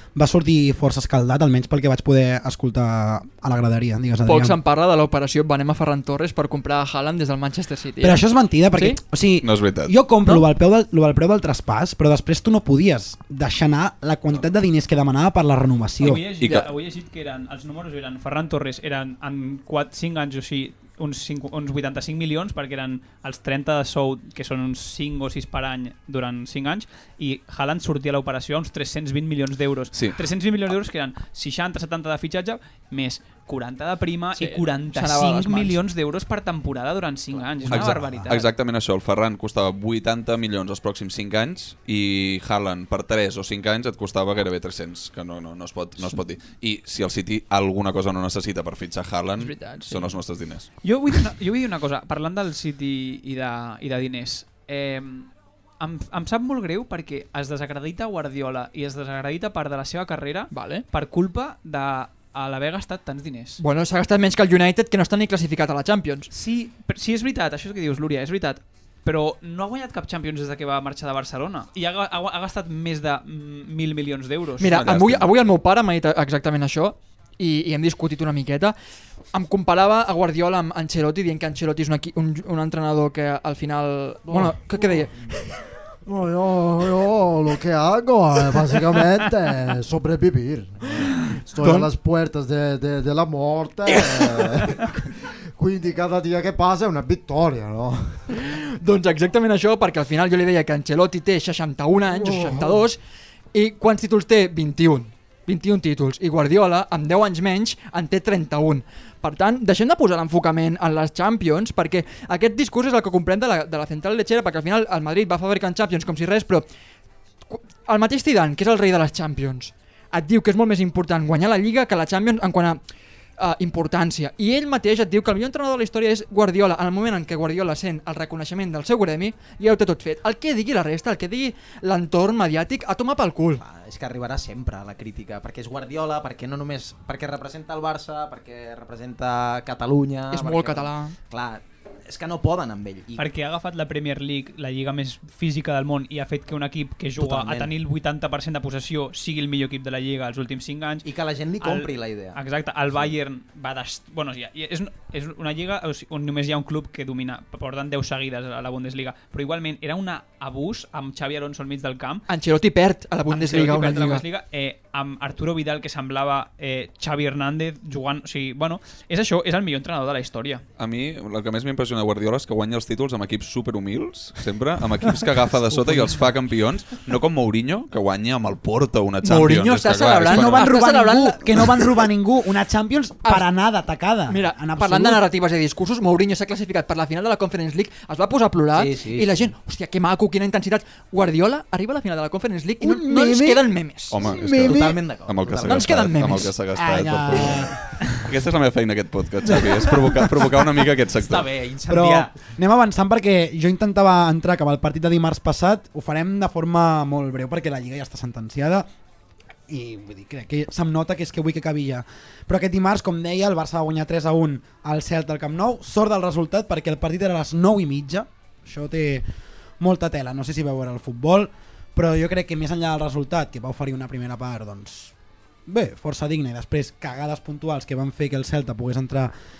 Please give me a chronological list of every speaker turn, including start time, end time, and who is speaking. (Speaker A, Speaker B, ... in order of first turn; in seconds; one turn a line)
Speaker A: 0.1-4.6
Speaker B: 4.2-9.0
Speaker A: 8.0-16.2
Speaker C: 9.4-9.9
Speaker D: 16.0-38.5
Speaker C: 16.4-16.7
Speaker C: 29.9-30.2
Speaker B: 34.4-35.8
Speaker C: 37.7-50.7
Speaker A: 37.7-38.3
Speaker B: 49.4-50.1
Speaker D: 50.8-63.6
Speaker B: 60.5-60.9
Speaker B: 63.6-66.3
Speaker D: 66.3-74.8
Speaker B: 74.6-78.7
Speaker C: 74.6-75.3
Speaker B: 79.3-85.1
Speaker E: 84.3-85.0
Speaker E: 86.0-98.5
Speaker B: 91.6-91.9
Speaker B: 98.3-103.0
Speaker E: 102.0-102.8
Speaker B: 103.5-116.7
Speaker B: 117.5-122.8
Speaker B: 123.4-133.6
Speaker F: 133.6-143.2
Speaker B: 140.3-141.1
Speaker D: 143.2-151.1
Speaker F: 147.2-147.7
Speaker F: 151.0-152.4
Speaker D: 151.6-162.2
Speaker B: 162.3-164.2
Speaker D: 163.3-170.6
Speaker C: 170.8-180.8
Speaker A: 175.9-176.1
Speaker B: 179.2-181.9
Speaker A: 180.3-185.2
Speaker B: 184.3-194.2
Speaker F: 188.7-189.5
Speaker A: 192.8-193.7
Speaker C: 194.1-201.4
Speaker A: 194.2-195.0
Speaker F: 194.6-195.9
Speaker B: 195.6-196.5
Speaker A: 196.7-197.7
Speaker F: 201.1-202.3
Speaker A: 201.9-208.9
Speaker A: 209.7-219.2
Speaker A: 219.8-225.1
Speaker A: 225.7-229.3